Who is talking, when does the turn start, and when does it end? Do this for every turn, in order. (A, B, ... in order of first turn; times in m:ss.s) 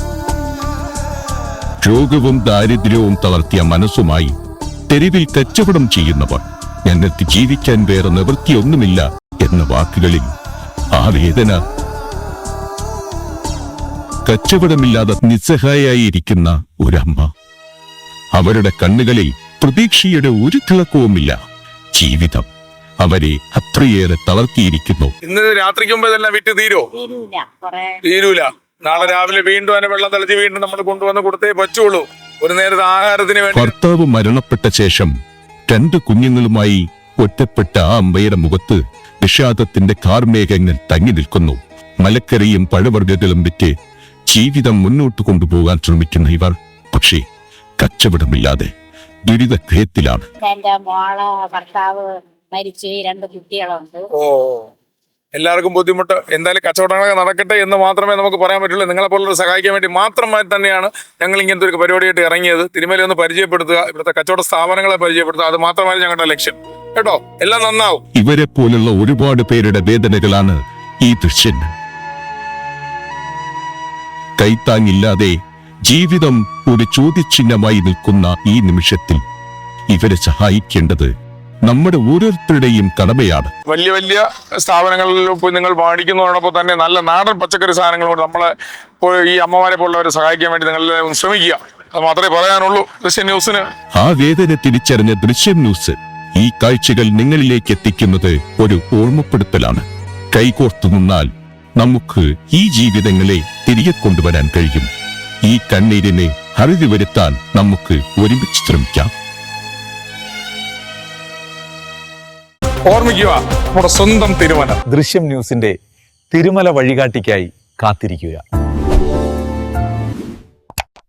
0:01.8-0:04.3 A
0:04.9-0:10.3 A
0:10.9-0:11.6 A
0:14.2-0:17.3 A
0:18.4-0:21.4 A
0:22.0-0:22.5 A
0:23.0-0:25.1 A
0:25.2-0:26.9 B
0:26.9-0:28.0 C
0:28.0-0:33.7 B
0:33.5-0:35.1 A
0:35.7-0:43.7 A
0:44.3-0:47.2 A
0:47.8-0:48.7 A
0:49.3-0:50.3 A
0:50.4-0:54.0 C
0:54.2-0:54.7 B
0:55.3-1:08.0 B
1:08.2-1:11.7 A
1:14.4-1:19.2 A
1:19.9-1:21.1 A
1:21.6-1:23.5 A
1:23.7-1:33.7 B
1:33.9-1:44.9 A
1:45.4-1:49.1 A
1:52.9-1:54.8 B
1:54.9-1:55.8 D
1:56.3-1:58.4 D